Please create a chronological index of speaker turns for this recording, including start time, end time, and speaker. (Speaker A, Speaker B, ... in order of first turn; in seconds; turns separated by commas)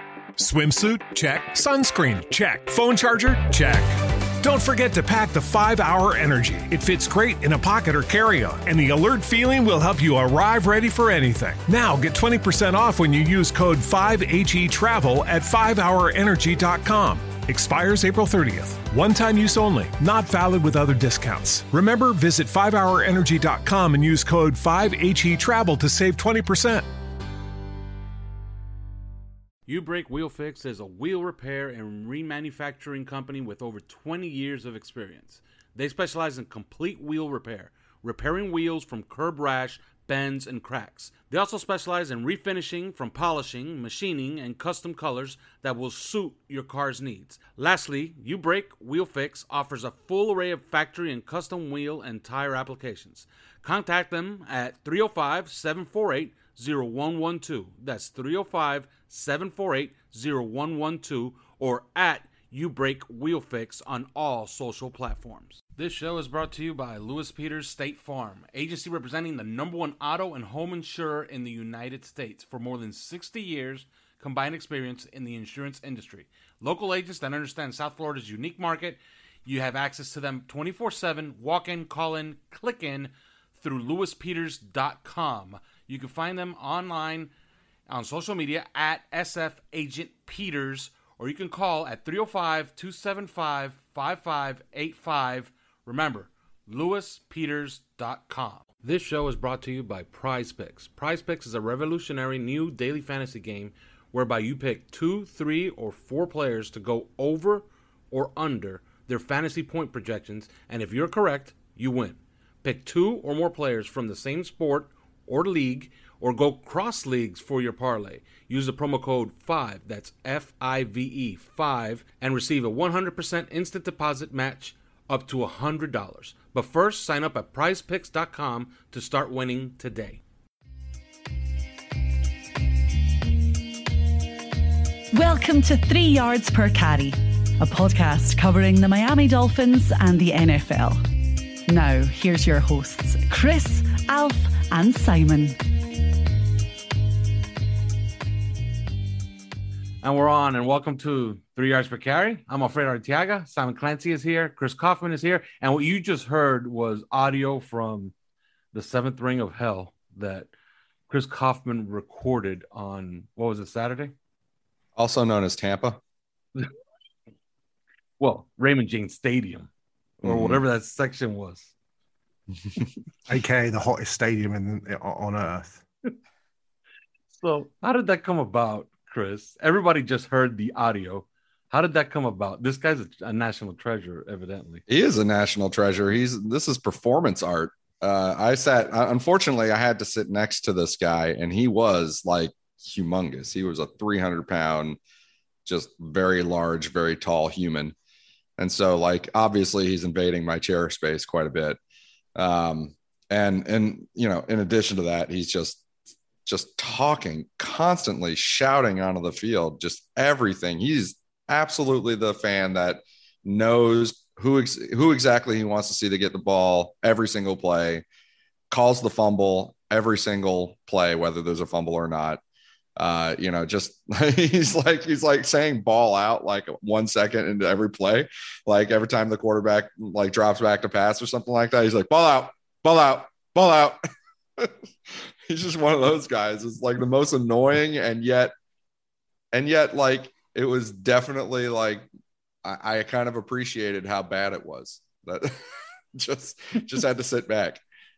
Speaker A: 0.4-26.9, Speaker B: 29.7-87.3, Speaker B: 87.9-130.2, Speaker C: 135.1-141.0, Speaker C: 141.7-145.6, Speaker B: 150.0-158.1, Speaker B: 158.7-160.5, Speaker B: 161.1-164.1, Speaker D: 164.9-166.0, Speaker B: 168.2-169.7, Speaker B: 170.2-171.7, Speaker D: 170.2-170.6, Speaker E: 173.3-175.8, Speaker B: 177.3-184.8, Speaker D: 184.9-195.0, Speaker D: 195.7-197.9, Speaker D: 198.6-201.8, Speaker D: 202.3-205.8, Speaker D: 206.4-218.0, Speaker D: 218.7-222.4, Speaker D: 223.0-234.0, Speaker D: 234.6-238.5, Speaker D: 239.5-242.1, Speaker D: 242.6-245.6, Speaker D: 246.1-247.8